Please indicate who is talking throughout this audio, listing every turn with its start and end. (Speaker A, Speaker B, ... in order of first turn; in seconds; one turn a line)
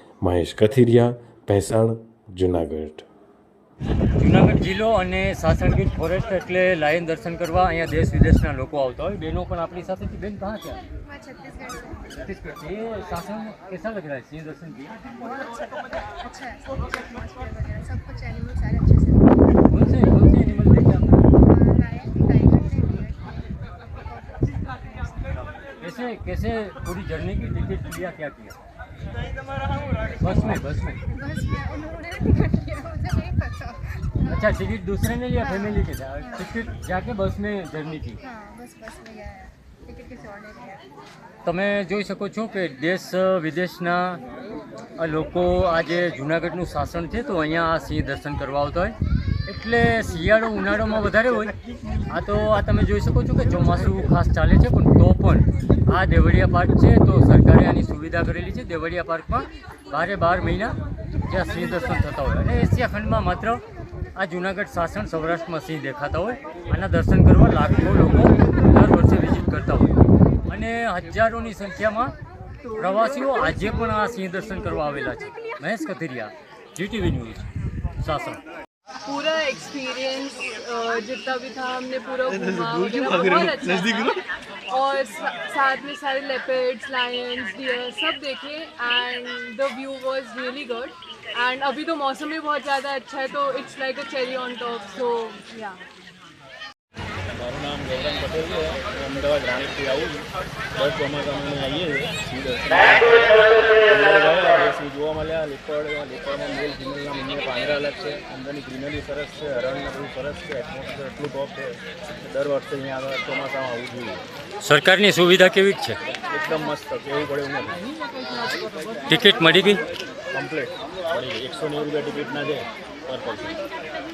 Speaker A: 0.2-3.0
Speaker B: 4.2-10.8
Speaker C: 11.0-12.3
Speaker B: 12.2-15.1
Speaker C: 15.2-20.3
Speaker B: 19.7-21.1
Speaker C: 21.3-25.5
Speaker B: 25.8-28.6
Speaker B: 30.2-31.0
Speaker C: 30.2-34.6
Speaker B: 34.2-38.2
Speaker C: 35.4-36.5
Speaker C: 38.2-40.9
Speaker B: 41.4-44.2
Speaker B: 45.0-49.0
Speaker B: 49.5-51.5
Speaker B: 52.1-63.6
Speaker B: 64.2-70.0
Speaker B: 70.5-72.1
Speaker D: 72.6-73.8
Speaker B: 72.8-77.5
Speaker B: 78.0-78.4
Speaker D: 79.0-95.8
Speaker E: 97.3-114.2
Speaker B: 114.6-116.0
Speaker E: 116.1-117.8
Speaker D: 118.3-119.0
Speaker B: 119.1-119.8
Speaker E: 120.3-123.6